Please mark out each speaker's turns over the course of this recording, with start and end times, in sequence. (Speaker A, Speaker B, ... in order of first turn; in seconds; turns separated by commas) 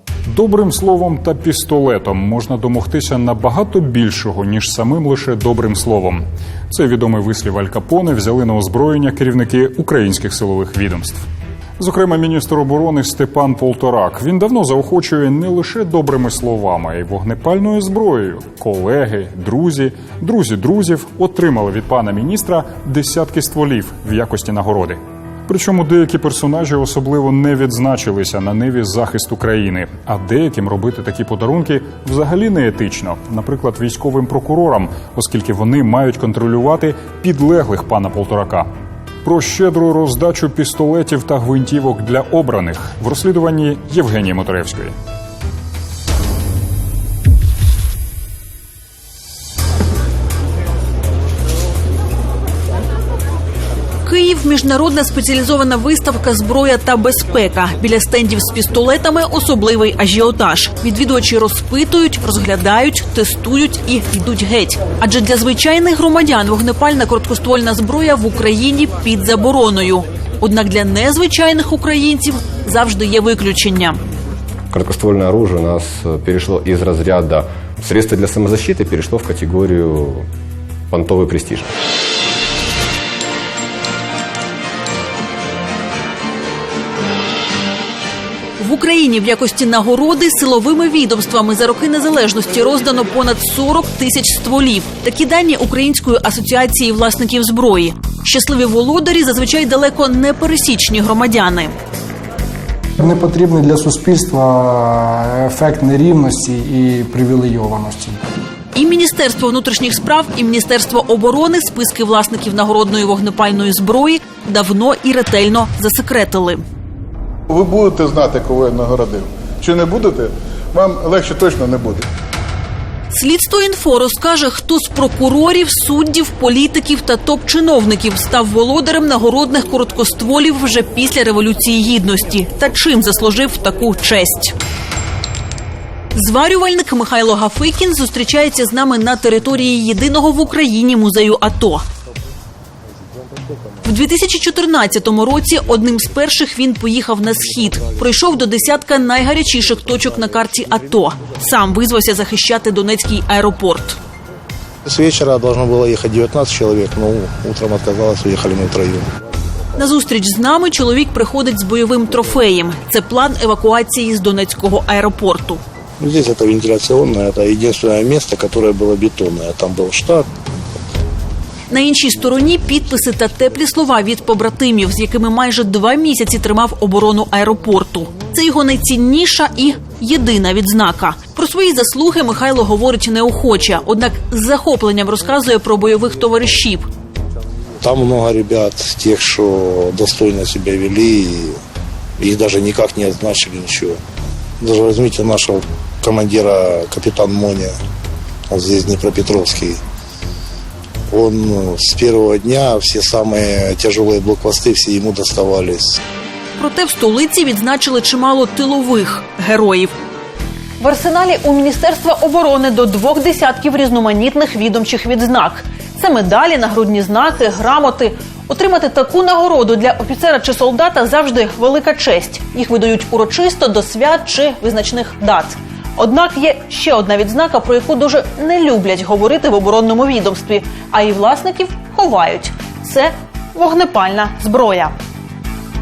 Speaker A: 0.3-11.2, Speaker A: 11.8-38.7, Speaker A: 39.2-44.9, Speaker B: 54.0-74.0, Speaker C: 74.7-80.3, Speaker C: 80.9-81.7, Speaker B: 88.6-101.7, Speaker D: 103.0-108.2, Speaker B: 108.8-116.6, Speaker E: 117.5-122.0, Speaker B: 123.1-134.6, Speaker B: 136.1-141.8, Speaker B: 143.8-154.0, Speaker F: 154.9-159.1, Speaker B: 159.8-165.6, Speaker F: 166.0-170.3, Speaker B: 171.7-186.8, Speaker F: 187.8-191.6, Speaker F: 192.2-194.0, Speaker F: 194.6-197.7, Speaker F: 198.5-199.8, Speaker F: 201.1-206.0, Speaker B: 206.6-209.9, Speaker B: 210.8-234.9